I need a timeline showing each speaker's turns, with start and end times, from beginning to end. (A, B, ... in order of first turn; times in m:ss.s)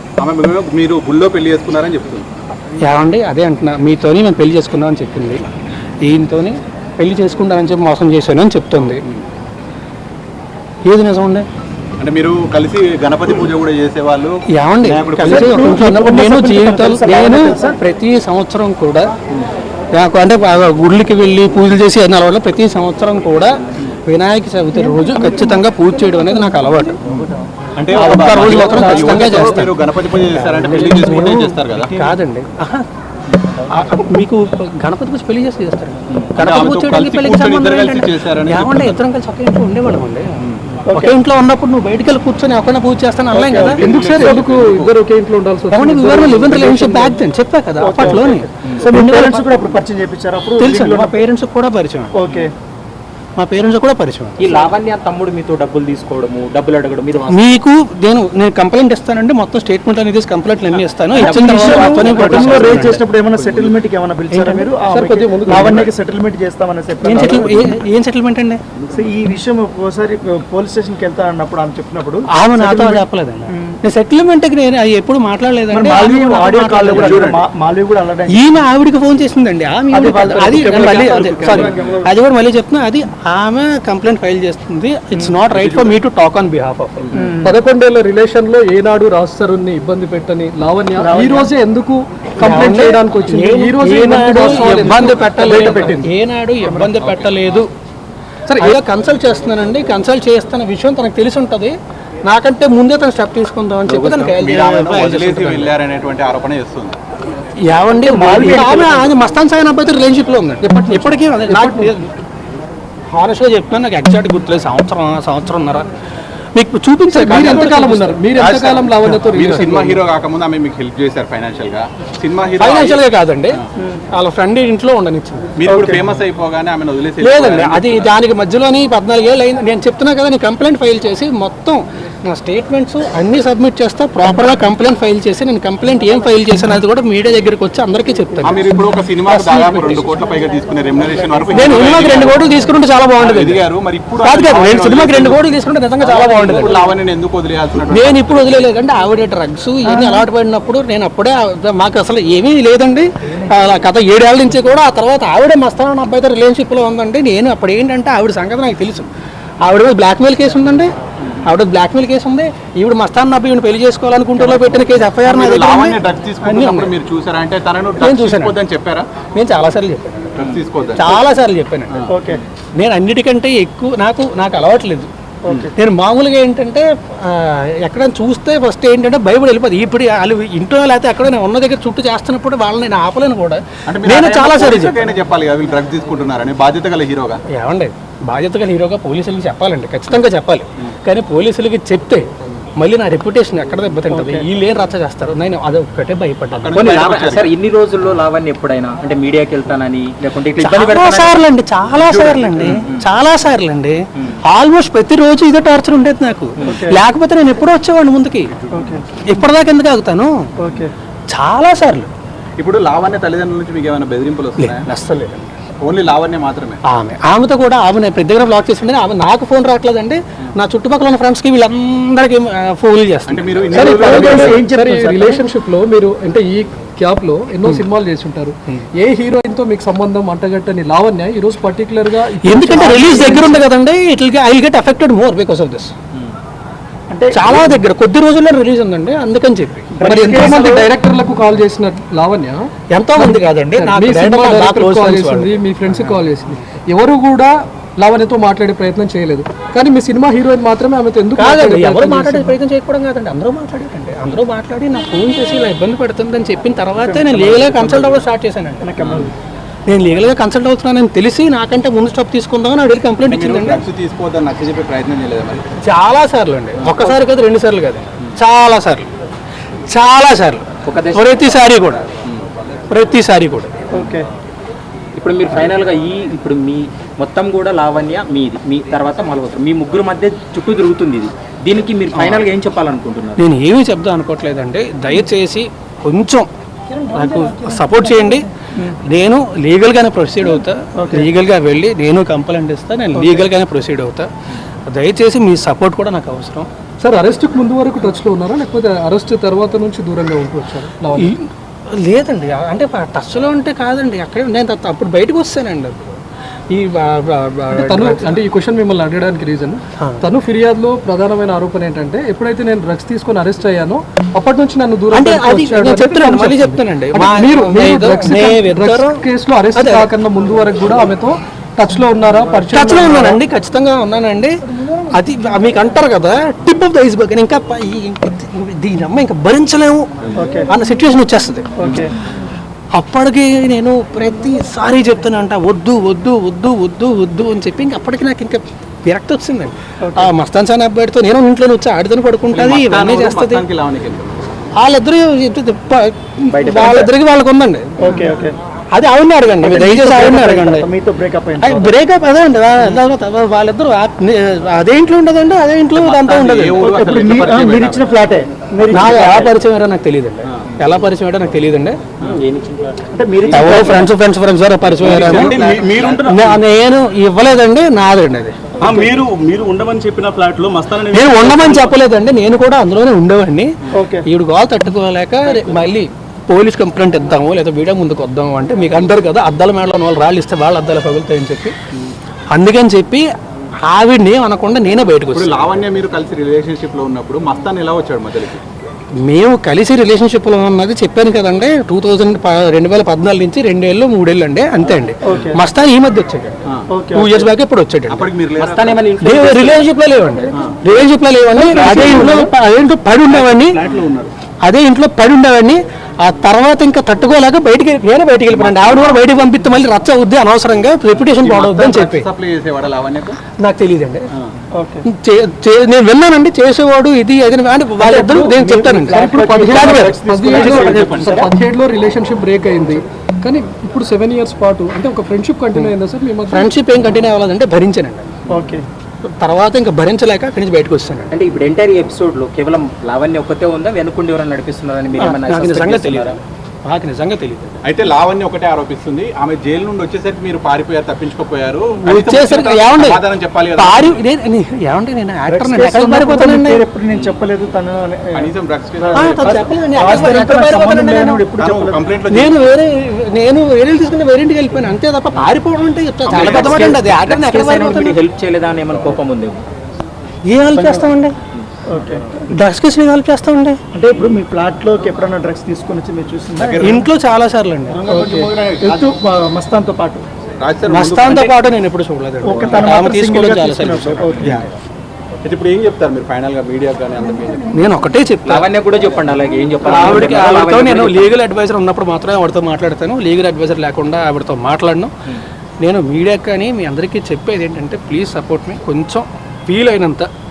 0:00.2-0:02.3 A
0:02.8-0:05.5 B
0:06.0-0:09.0 B
0:08.8-0:09.2 A
0:10.9-0:11.4 B
0:12.0-0:15.7 A
0:14.5-0:19.1 B
0:15.2-0:17.8 C
0:20.0-0:23.5 B
0:24.0-0:27.0 B
0:27.1-0:32.2 A
0:27.9-0:29.7 B
0:30.4-0:32.8 B
0:33.7-0:40.3 B
0:36.2-0:39.0 A
0:40.8-0:41.2 C
0:40.9-0:44.4 B
0:43.3-0:43.9 C
0:43.7-0:44.9 A
0:43.8-0:47.2 D
0:45.7-0:49.4 B
0:47.8-0:51.2 C
0:50.6-0:52.2 B
0:52.1-0:52.5 C
0:53.4-0:54.4 B
0:54.4-0:57.5 E
0:57.3-1:03.0 B
1:01.1-1:07.7 C
1:01.3-1:02.5 D
1:02.0-1:02.9 E
1:02.2-1:02.8 A
1:04.3-1:04.7 B
1:04.8-1:05.9 D
1:05.5-1:05.8 B
1:07.0-1:08.6 B
1:07.2-1:07.7 A
1:08.9-1:13.8 C
1:12.4-1:17.3 B
1:15.7-1:18.4 C
1:16.9-1:17.4 A
1:18.3-1:27.2 B
1:19.9-1:22.1 C
1:20.5-1:22.0 A
1:25.5-1:26.0 A
1:27.2-1:27.5 C
1:27.4-1:36.1 D
1:31.0-1:31.5 C
1:32.4-1:37.7 B
1:35.4-1:36.1 C
1:36.6-1:36.9 C
1:38.5-1:38.8 D
1:38.6-1:41.8 B
1:42.3-1:45.7 B
1:43.9-1:47.0 A
1:47.6-1:52.1 B
1:48.0-1:49.2 C
1:50.6-1:51.9 D
1:53.1-1:55.9 B
1:56.6-1:58.2 B
1:57.1-2:00.0 D
1:57.3-1:57.8 A
1:58.3-2:03.0 A
2:02.6-2:03.6 B
2:04.1-2:05.5 B
2:05.6-2:08.1 A
2:05.7-2:06.0 C
2:07.2-2:20.1 B
2:18.4-2:22.4 A
2:21.5-2:23.6 B
2:23.2-2:25.4 A
2:24.2-2:26.8 B
2:26.0-2:28.6 A
2:27.9-2:39.1 B
2:39.6-2:40.9 B
2:41.4-2:46.9 B
2:45.2-2:49.1 A
2:48.0-2:48.6 B
2:49.3-2:50.4 B
2:50.4-2:51.2 A
2:51.0-2:52.0 B
2:52.1-2:52.4 C
2:52.8-2:55.1 B
2:55.4-2:55.7 C
2:55.8-3:05.0 B
3:03.9-3:07.4 A
3:07.5-3:12.3 B
3:12.8-3:16.8 B
3:14.1-3:14.4 C
3:16.5-3:17.5 A
3:16.7-3:21.4 E
3:20.6-3:24.0 B
3:22.0-3:22.8 A
3:22.6-3:23.0 E
3:24.5-3:28.5 B
3:26.6-3:27.0 C
3:28.7-3:29.2 C
3:29.3-3:30.3 B
3:30.6-3:30.9 C
3:31.3-3:32.1 B
3:32.6-3:34.8 A
3:34.6-3:35.5 B
3:35.8-3:36.8 A
3:36.9-3:44.6 B
3:43.3-3:44.6 A
3:43.7-3:45.4 C
3:43.9-3:53.6 D
3:52.4-3:55.9 B
3:57.1-3:57.7 C
3:57.3-4:00.8 B
3:59.9-4:00.8 C
4:00.0-4:02.6 D
4:02.9-4:05.5 B
4:03.1-4:12.6 D
4:11.4-4:18.9 B
4:17.0-4:17.3 C
4:17.3-4:18.2 A
4:18.8-4:19.3 C
4:19.0-4:19.3 A
4:19.9-4:23.8 B
4:23.2-4:25.6 A
4:25.8-4:29.1 B
4:26.8-4:27.2 A
4:29.9-4:32.0 B
4:30.9-4:31.5 E
4:32.9-4:33.7 B
4:33.9-4:34.3 C
4:35.2-4:43.4 E
4:42.2-4:42.4 B
4:43.4-4:46.5 B
4:47.1-4:48.5 B
4:49.1-4:54.3 B
4:51.0-4:51.3 C
4:53.1-4:53.5 C
4:54.9-4:56.7 B
4:57.0-5:01.3 D
5:01.2-5:06.0 B
5:06.7-5:08.4 B
5:07.7-5:23.4 D
5:10.0-5:10.2 B
5:15.1-5:20.1 B
5:22.7-5:30.1 B
5:30.4-5:30.7 C
5:30.7-5:32.0 B
5:31.8-5:32.1 C
5:33.0-5:43.6 B
5:40.0-5:40.3 C
5:42.5-5:44.6 A
5:44.8-5:47.9 B
5:46.5-5:47.1 E
5:48.0-5:48.6 C
5:48.9-5:50.9 B
5:49.6-5:51.9 C
5:51.6-5:56.9 B
5:55.9-5:58.1 A
5:56.8-5:59.5 C
5:58.9-6:02.0 B
6:02.3-6:03.9 E
6:03.1-6:04.1 C
6:03.5-6:05.6 B
6:05.0-6:06.6 A
6:05.2-6:05.8 C
6:05.7-6:06.2 E
6:06.2-6:08.6 B
6:08.8-6:09.2 C
6:08.8-6:11.9 A
6:11.1-6:13.7 B
6:13.9-6:14.2 C
6:14.2-6:21.8 B
6:22.5-6:23.3 B
6:23.8-6:25.5 B
6:25.3-6:28.6 A
6:29.2-6:36.6 B
6:35.2-6:35.6 C
6:36.9-6:37.5 C
6:37.1-6:38.3 B
6:38.1-6:39.2 A
6:38.6-6:39.9 E
6:39.2-6:43.8 B
6:40.6-6:40.9 A
6:41.5-6:42.5 E
6:41.7-6:42.3 A
6:43.3-6:44.3 A
6:43.8-6:44.2 E
6:44.6-6:52.3 B
6:48.5-6:49.3 A
6:51.1-6:53.4 A
6:53.6-6:54.3 B
6:54.8-6:55.0 C
6:55.1-7:00.2 B
6:58.0-7:01.5 C
6:59.1-7:06.8 D
6:59.8-7:01.4 A
7:06.5-7:08.2 B
7:08.5-7:08.8 C
7:09.2-7:11.3 B
7:11.3-7:16.4 E
7:15.2-7:17.8 B
7:17.8-7:24.2 A
7:22.0-7:23.2 B
7:23.8-7:26.8 B
7:25.5-7:32.0 C
7:27.1-7:27.4 A
7:28.4-7:30.4 A
7:29.2-7:31.4 B
7:31.6-7:32.6 A
7:32.3-7:38.2 B
7:36.3-7:39.6 E
7:36.3-7:37.0 A
7:40.4-7:41.3 B
7:40.7-7:41.1 C
7:41.9-7:42.5 C
7:42.5-7:43.8 B
7:43.9-7:47.0 C
7:46.6-7:47.0 A
7:46.8-7:48.0 B
7:47.9-7:50.2 C
7:48.1-7:49.0 A
7:50.6-7:51.6 A
7:50.9-7:54.2 B
7:52.4-7:54.7 C
7:54.4-7:54.7 A
7:55.4-7:57.7 A
7:57.7-7:58.7 B
7:58.5-8:01.3 E
7:59.8-8:05.1 B
8:05.8-8:10.3 B